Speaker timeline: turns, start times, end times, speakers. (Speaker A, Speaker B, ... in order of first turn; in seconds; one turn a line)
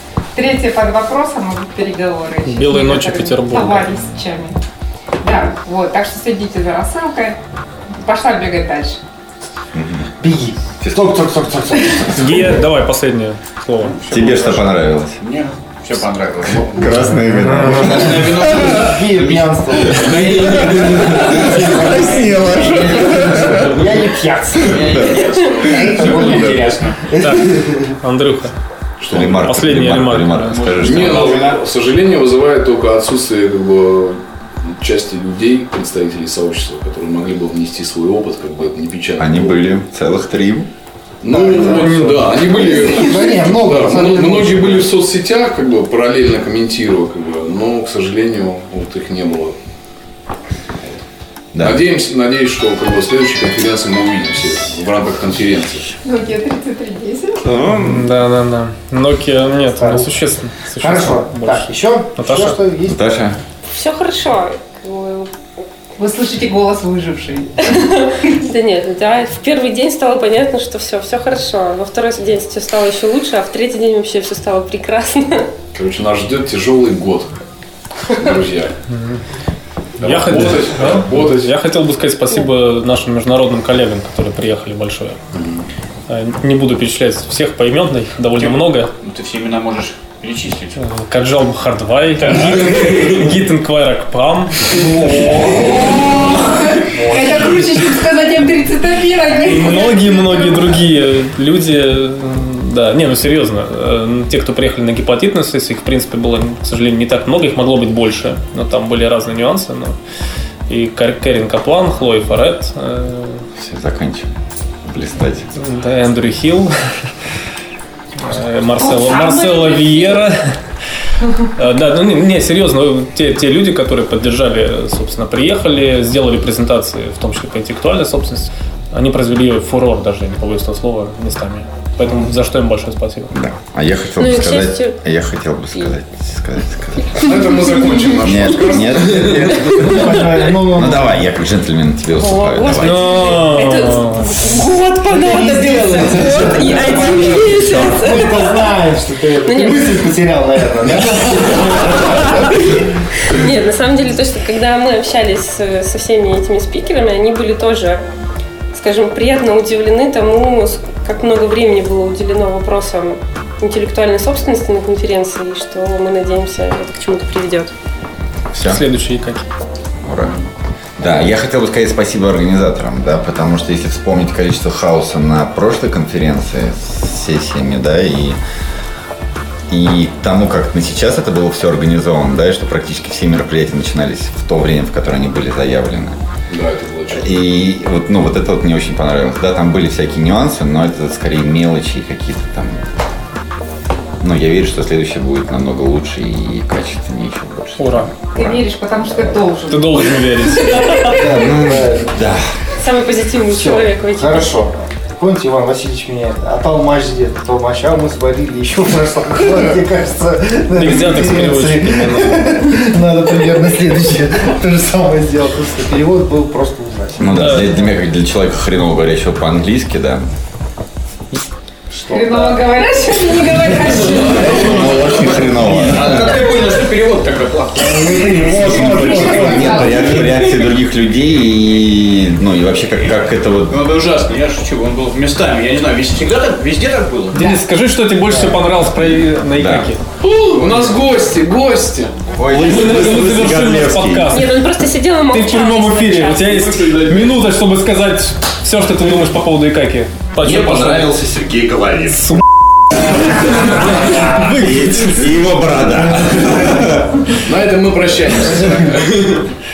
Speaker A: 0.3-4.5
Speaker B: 2.5-4.1
Speaker A: 5.2-7.4
Speaker A: 8.0-9.0
Speaker C: 9.7-10.1
Speaker D: 10.2-12.6
Speaker C: 10.8-12.5
Speaker B: 12.1-14.0
Speaker E: 13.8-17.0
Speaker C: 14.1-15.2
Speaker C: 16.5-18.8
Speaker B: 17.3-17.9
Speaker E: 17.6-27.1
Speaker D: 17.6-27.9
Speaker C: 20.0-23.9
Speaker C: 24.7-25.0
Speaker F: 25.9-26.7
Speaker B: 27.2-28.5
Speaker F: 29.0-29.5
Speaker C: 29.0-31.5
Speaker B: 29.1-30.6
Speaker E: 30.5-31.6
Speaker F: 30.8-39.6
Speaker C: 39.2-40.7
Speaker F: 41.2-49.5
Speaker D: 41.3-44.9
Speaker B: 41.7-42.1
Speaker C: 51.5-51.9
Speaker F: 51.6-55.9
Speaker A: 56.0-57.4
Speaker C: 57.4-58.1
Speaker B: 57.7-62.6
Speaker D: 59.8-60.2
Speaker D: 60.8-63.1
Speaker C: 62.9-63.4
Speaker G: 63.7-65.3
Speaker A: 66.0-67.8
Speaker G: 67.6-75.5
Speaker F: 75.7-77.3
Speaker F: 78.1-78.7
Speaker B: 78.9-79.2
Speaker F: 80.0-81.5
Speaker B: 80.0-85.2
Speaker F: 85.3-85.7
Speaker B: 86.1-88.9
Speaker E: 88.3-90.8
Speaker B: 90.8-94.8
Speaker E: 92.7-93.0
Speaker D: 94.7-96.0
Speaker A: 95.3-100.8
Speaker D: 96.9-97.7
Speaker B: 99.4-110.0
Speaker B: 110.7-113.5
Speaker C: 113.6-114.3
Speaker C: 114.8-115.5
Speaker B: 115.6-116.7
Speaker B: 118.2-120.6
Speaker A: 118.8-120.2
Speaker B: 121.5-133.3
Speaker C: 133.3-137.5
Speaker G: 134.2-135.0
Speaker G: 137.2-138.0
Speaker F: 137.2-140.2
Speaker C: 138.2-143.4
Speaker D: 139.7-141.3
Speaker G: 142.2-148.8
Speaker B: 142.8-144.4
Speaker D: 144.5-152.9
Speaker G: 149.4-150.0
Speaker G: 153.3-158.0
Speaker G: 158.7-167.7
Speaker C: 168.5-168.8
Speaker B: 168.7-169.4
Speaker C: 170.0-170.3
Speaker C: 171.0-178.4
Speaker C: 179.7-186.2
Speaker F: 186.5-187.3
Speaker C: 187.1-192.8
Speaker C: 194.2-199.4
Speaker B: 197.8-198.1
Speaker A: 198.3-200.8
Speaker B: 199.7-201.2
Speaker D: 201.0-202.2
Speaker C: 201.3-202.4
Speaker G: 202.8-204.6
Speaker D: 203.5-217.4
Speaker B: 210.7-212.7
Speaker C: 217.2-220.3
Speaker B: 217.3-217.7
Speaker A: 222.1-224.9
Speaker D: 222.1-222.5
Speaker D: 224.2-226.1
Speaker C: 224.2-226.4
Speaker E: 225.4-228.4
Speaker D: 227.8-230.5
Speaker C: 228.4-233.8
Speaker B: 228.7-229.9
Speaker A: 228.9-230.5
Speaker E: 233.7-237.5
Speaker B: 237.3-240.0
Speaker D: 238.3-238.7
Speaker C: 239.4-239.9
Speaker F: 240.2-242.2
Speaker C: 242.3-244.3
Speaker B: 242.5-244.6
Speaker G: 244.3-246.8
Speaker B: 245.3-251.1
Speaker E: 246.9-247.2
Speaker E: 250.4-251.3
Speaker C: 250.5-252.4
Speaker C: 253.4-257.3
Speaker B: 253.6-255.3
Speaker D: 256.3-256.8
Speaker F: 257.4-259.4